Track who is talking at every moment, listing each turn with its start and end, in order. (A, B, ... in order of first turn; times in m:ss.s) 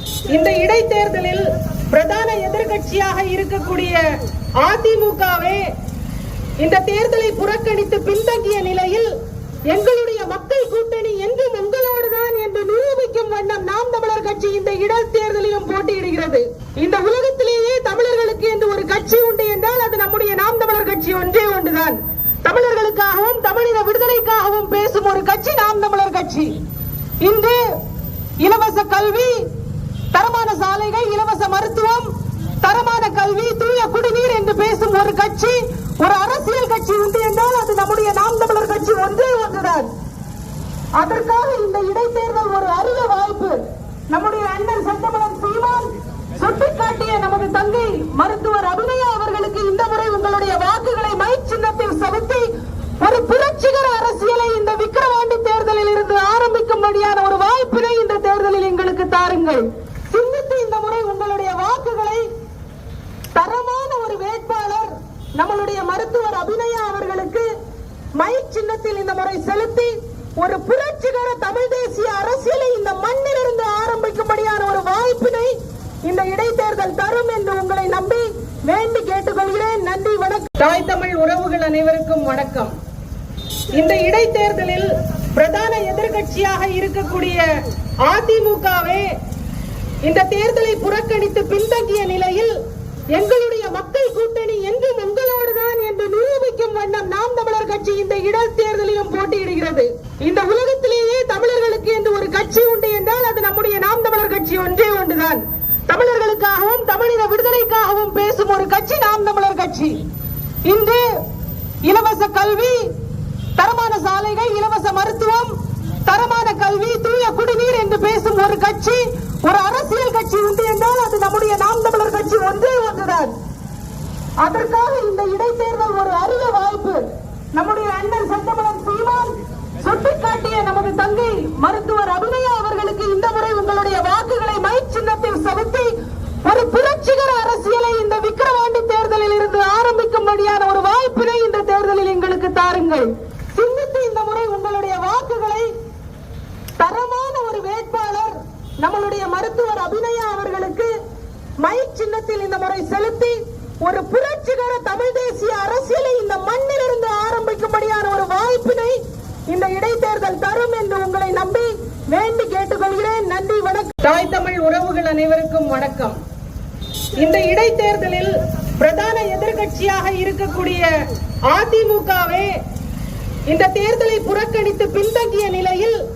0:00.3-0:04.0 A
0:04.6-0:05.7 A
0:06.6-0:09.1 A
0:09.7-0:26.6 A
0:27.2-0:27.6 A
0:28.4-0:29.5 A
0:30.1-0:39.9 A
0:41.0-0:52.5 A
0:53.0-1:02.3 A
1:03.4-1:07.5 A
1:08.2-1:22.7 A
1:23.7-1:27.5 A
1:28.1-1:29.1 A
1:30.0-1:32.6 A
1:33.1-1:50.0 A
1:50.7-1:51.1 A
1:51.8-1:52.9 A
1:53.6-1:55.6 A
1:56.1-2:03.3 A
2:04.4-2:25.7 A
2:26.8-2:30.9 A
2:31.6-2:46.2 A
2:47.2-2:50.9 A
2:51.5-2:52.5 A
2:53.5-2:56.0 A